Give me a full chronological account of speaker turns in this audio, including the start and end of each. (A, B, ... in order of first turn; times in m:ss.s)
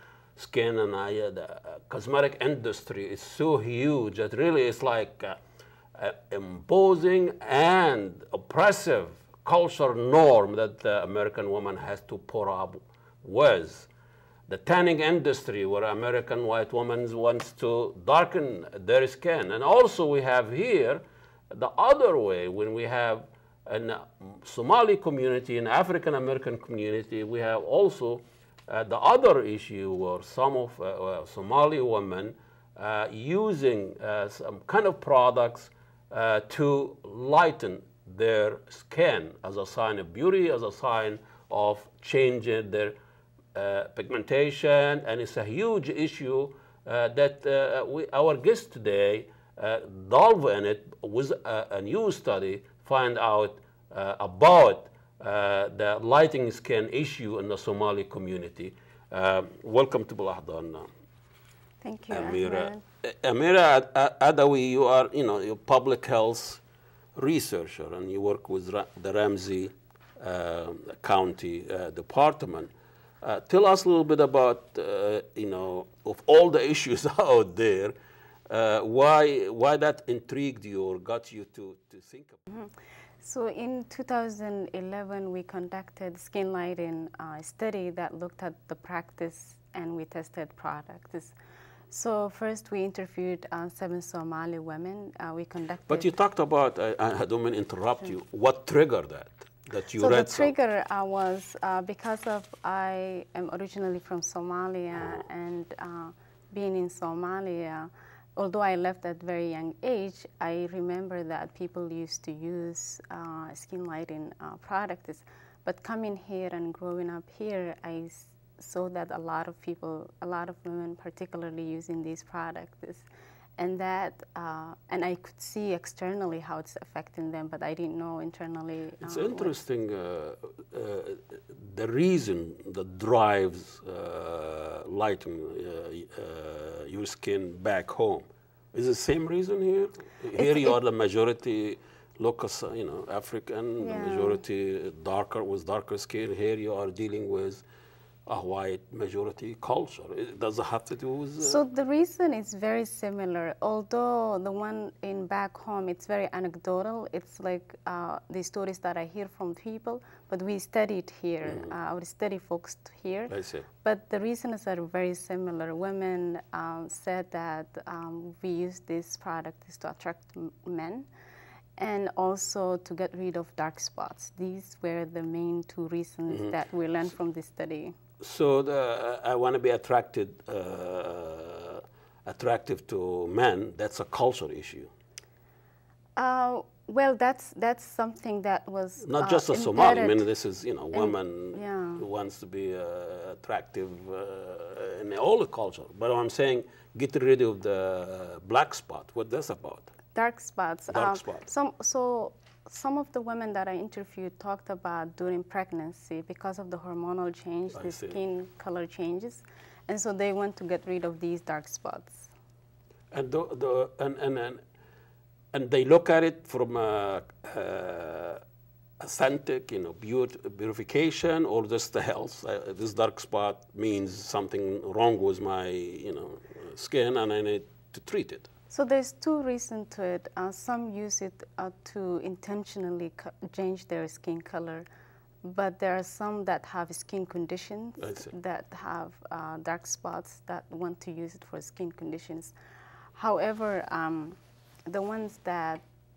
0:00.4-0:05.4 A
0:05.9-0:13.9 A
0:14.5-0:43.0 A
0:43.5-1:00.9 A
1:01.8-1:02.8 B
1:02.1-1:06.6 A
1:07.1-1:18.0 A
1:18.5-1:22.4 A
1:22.5-1:31.3 B
1:31.9-1:36.1 B
1:35.9-1:40.5 A
1:40.0-2:03.1 B
2:03.6-2:09.6 B
2:09.0-2:27.6 A
2:20.3-2:20.8 B
2:23.8-2:24.4 B
2:28.2-2:31.6 A
2:31.4-2:51.1 B
2:41.4-2:41.7 A
2:43.3-2:43.6 A
2:51.8-2:57.9 B
2:58.2-3:04.9 A
3:06.2-3:10.3 B
3:09.0-3:19.9 A
3:10.9-3:12.0 B
3:20.1-3:32.3 B
3:20.9-3:21.4 A
3:27.7-3:28.2 A
3:33.1-3:34.6 A
3:35.5-3:38.4 A
3:39.0-3:48.5 A
3:48.7-3:54.8 B
3:55.4-4:02.5 B
3:58.0-3:58.3 A
4:03.1-4:05.8 B